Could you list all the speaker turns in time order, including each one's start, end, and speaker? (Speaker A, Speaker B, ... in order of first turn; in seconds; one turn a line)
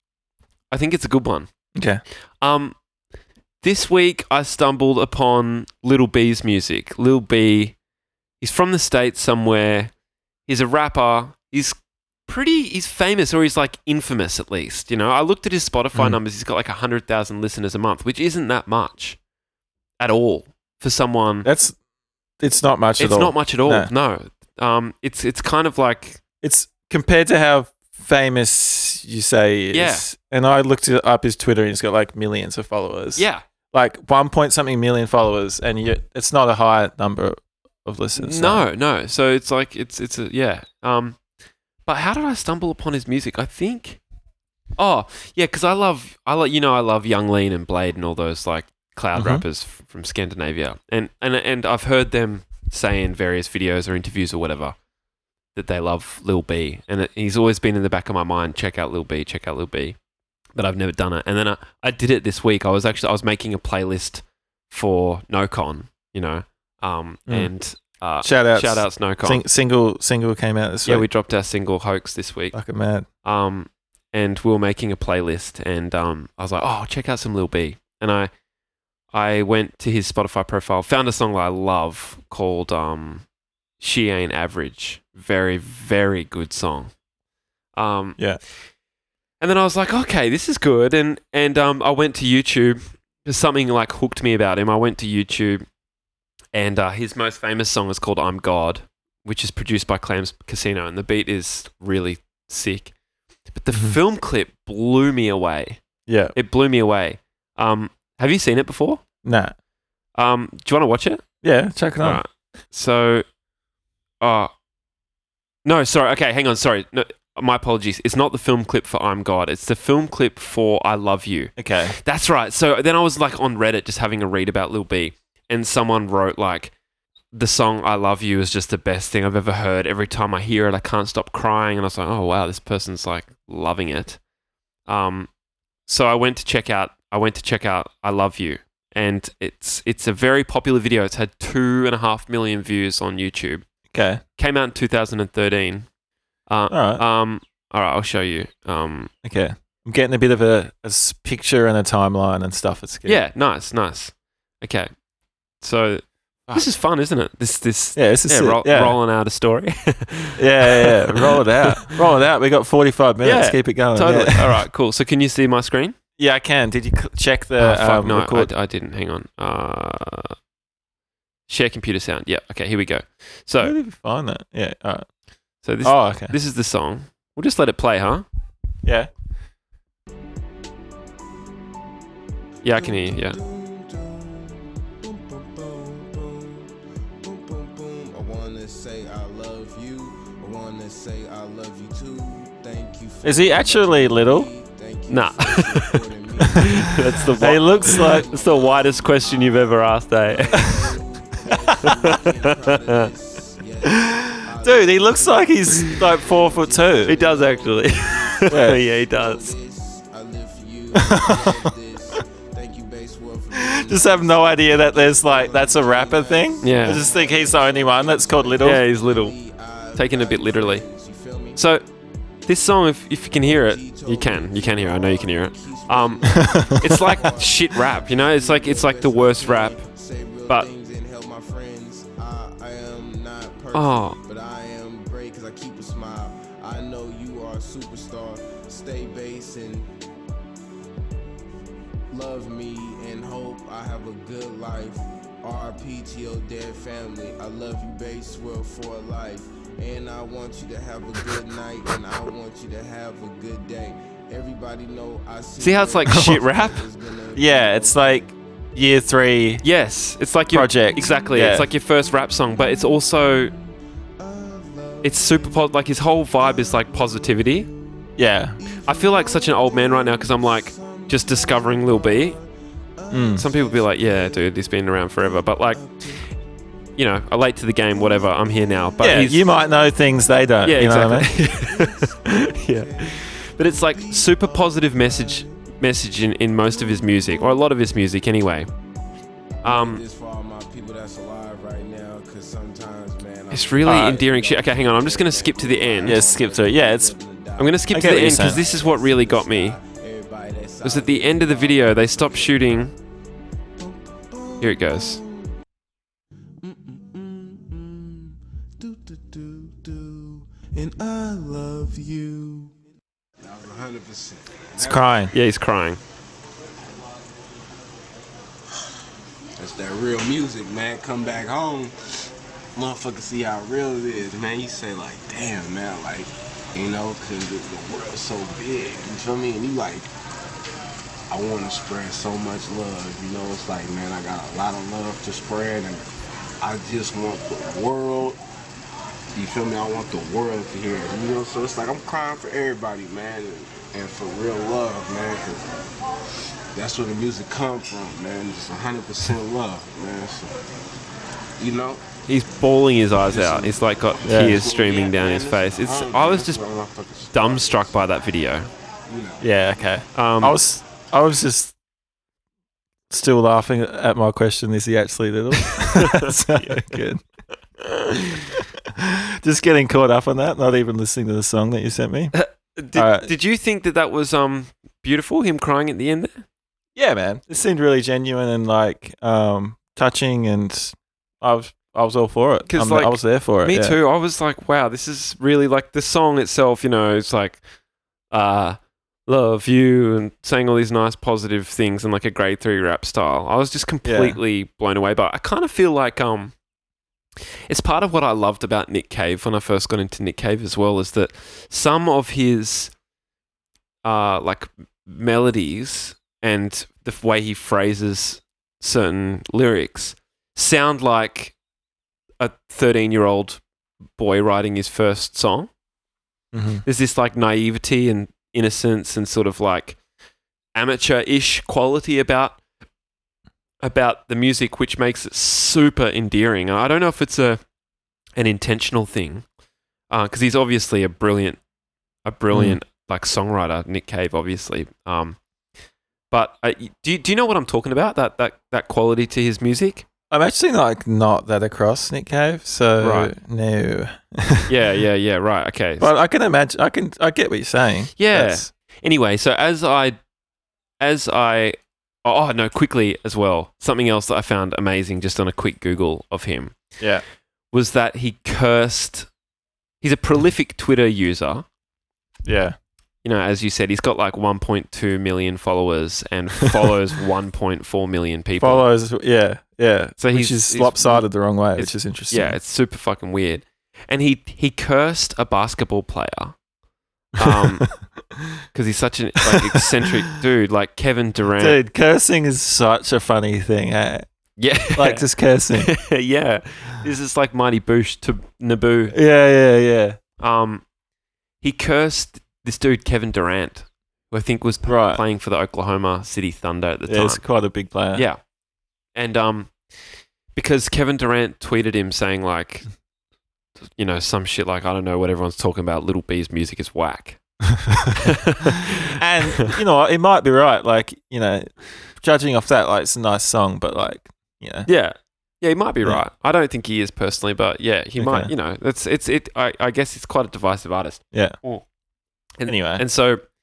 Speaker A: 0.7-1.5
Speaker B: 1.8-2.0
Speaker A: 2.4-2.8
Speaker A: 3.6-7.8
Speaker A: 8.4-9.9
Speaker A: 10.5-19.2
Speaker A: 20.0-21.5
Speaker B: 21.4-21.8
Speaker B: 22.4-23.9
Speaker A: 23.0-26.2
Speaker B: 26.4-38.6
Speaker A: 29.7-30.1
Speaker A: 33.2-33.4
Speaker A: 38.1-41.2
Speaker A: 41.9-44.0
Speaker A: 44.8-54.8
Speaker B: 49.1-49.4
Speaker A: 55.5-60.0
Speaker A: 60.6-69.4
Speaker B: 68.2-71.1
Speaker A: 70.9-72.5
Speaker B: 72.5-73.1
Speaker A: 73.2-78.3
Speaker A: 79.1-83.2
Speaker A: 83.8-86.9
Speaker A: 87.8-88.2
Speaker A: 89.4-95.6
Speaker A: 96.5-102.9
Speaker A: 103.5-105.8
Speaker B: 106.1-106.3
Speaker A: 106.3-109.0
Speaker B: 109.2-109.5
Speaker A: 110.2-111.2
Speaker B: 111.4-112.2
Speaker A: 112.0-113.2
Speaker A: 114.2-114.5
Speaker A: 115.6-126.7
Speaker B: 121.6-121.9
Speaker A: 127.3-134.2
Speaker A: 134.8-135.3
Speaker A: 135.8-143.6
Speaker B: 143.9-144.2
Speaker A: 144.4-145.9
Speaker A: 146.5-149.1
Speaker B: 146.7-147.0
Speaker B: 149.2-153.2
Speaker A: 153.1-154.9
Speaker A: 155.6-161.4
Speaker B: 158.0-158.9
Speaker B: 160.4-164.6
Speaker A: 163.2-166.0
Speaker B: 166.2-168.5
Speaker A: 167.6-170.3
Speaker A: 171.5-173.7
Speaker B: 173.6-175.1
Speaker A: 175.6-178.2
Speaker B: 175.8-176.3
Speaker B: 178.8-179.1
Speaker A: 182.6-183.4
Speaker C: 182.7-221.6
Speaker B: 193.2-194.5
Speaker A: 195.1-195.9
Speaker A: 196.5-200.9
Speaker B: 197.4-198.2
Speaker A: 201.8-203.1
Speaker B: 204.0-207.2
Speaker A: 207.1-209.5
Speaker B: 208.5-208.8
Speaker B: 210.9-211.7
Speaker B: 213.5-218.8
Speaker A: 216.6-217.1
Speaker A: 218.6-219.3
Speaker A: 219.9-220.8
Speaker A: 221.6-221.8
Speaker A: 222.5-229.8
Speaker C: 223.4-239.9
Speaker B: 226.4-227.0
Speaker A: 233.7-234.2
Speaker C: 242.1-258.3
Speaker A: 255.6-256.8
Speaker B: 256.1-256.4
Speaker B: 257.4-259.6
Speaker A: 259.6-263.5
Speaker B: 260.5-261.7
Speaker C: 261.0-261.7
Speaker C: 262.5-274.5
Speaker A: 265.0-267.7
Speaker B: 268.2-268.6
Speaker A: 268.9-272.4
Speaker B: 273.1-273.4
Speaker A: 273.4-275.8
Speaker C: 275.2-276.4
Speaker A: 277.0-279.4
Speaker C: 277.9-285.6
Speaker B: 279.0-281.3
Speaker A: 280.6-288.7
Speaker C: 286.6-287.6
Speaker A: 289.6-290.0
Speaker C: 289.6-302.9
Speaker A: 293.5-296.2
Speaker B: 293.9-294.1
Speaker B: 296.1-297.1
Speaker A: 297.6-299.8
Speaker B: 297.9-298.6
Speaker A: 300.8-302.9
Speaker C: 303.8-305.5
Speaker A: 304.6-305.2
Speaker C: 306.6-312.8
Speaker C: 313.4-315.3
Speaker B: 314.8-315.3
Speaker A: 315.3-316.0
Speaker C: 319.6-321.9
Speaker C: 322.8-330.1
Speaker C: 331.3-336.1
Speaker C: 336.6-338.4
Speaker C: 339.4-345.7
Speaker C: 346.7-350.6
Speaker C: 351.6-352.1
Speaker A: 352.3-356.6
Speaker C: 353.2-358.0
Speaker B: 354.2-354.6
Speaker A: 357.3-358.7
Speaker C: 359.1-359.5
Speaker B: 359.4-361.8
Speaker A: 360.1-360.6
Speaker B: 363.1-367.2
Speaker A: 365.7-367.0
Speaker B: 368.5-372.3
Speaker A: 372.3-376.4
Speaker B: 372.9-373.3
Speaker B: 376.9-384.0
Speaker A: 382.7-387.6
Speaker A: 388.3-396.5
Speaker B: 394.0-394.4
Speaker A: 397.7-402.9
Speaker A: 404.0-411.6
Speaker A: 412.4-413.6
Speaker A: 414.2-415.7
Speaker B: 416.5-416.8
Speaker A: 416.9-420.0
Speaker A: 420.8-422.6
Speaker A: 423.8-427.6
Speaker A: 428.4-429.4
Speaker A: 430.1-431.6
Speaker A: 432.2-435.4
Speaker B: 432.5-432.8
Speaker A: 436.3-440.1
Speaker B: 440.3-444.7
Speaker A: 443.0-443.3
Speaker A: 444.7-446.1
Speaker B: 446.0-448.7
Speaker A: 448.2-450.2
Speaker A: 451.0-456.8
Speaker B: 457.0-457.2
Speaker A: 457.7-459.3
Speaker A: 460.0-461.7
Speaker B: 462.4-462.8
Speaker A: 463.2-468.9
Speaker B: 468.6-472.6
Speaker A: 470.2-476.6
Speaker A: 477.4-477.9
Speaker A: 478.7-481.8
Speaker B: 481.6-484.2
Speaker A: 484.6-485.2
Speaker B: 484.9-485.9
Speaker A: 485.8-489.1
Speaker B: 489.1-490.2
Speaker A: 490.4-490.8
Speaker A: 491.6-497.4
Speaker B: 494.9-495.2
Speaker B: 497.1-498.2
Speaker A: 498.1-498.4
Speaker A: 499.1-499.7
Speaker A: 500.6-502.9
Speaker A: 503.9-507.4
Speaker A: 508.2-509.0
Speaker B: 509.2-514.9
Speaker A: 514.9-521.8
Speaker B: 518.2-518.5
Speaker A: 522.6-523.4
Speaker B: 522.6-523.0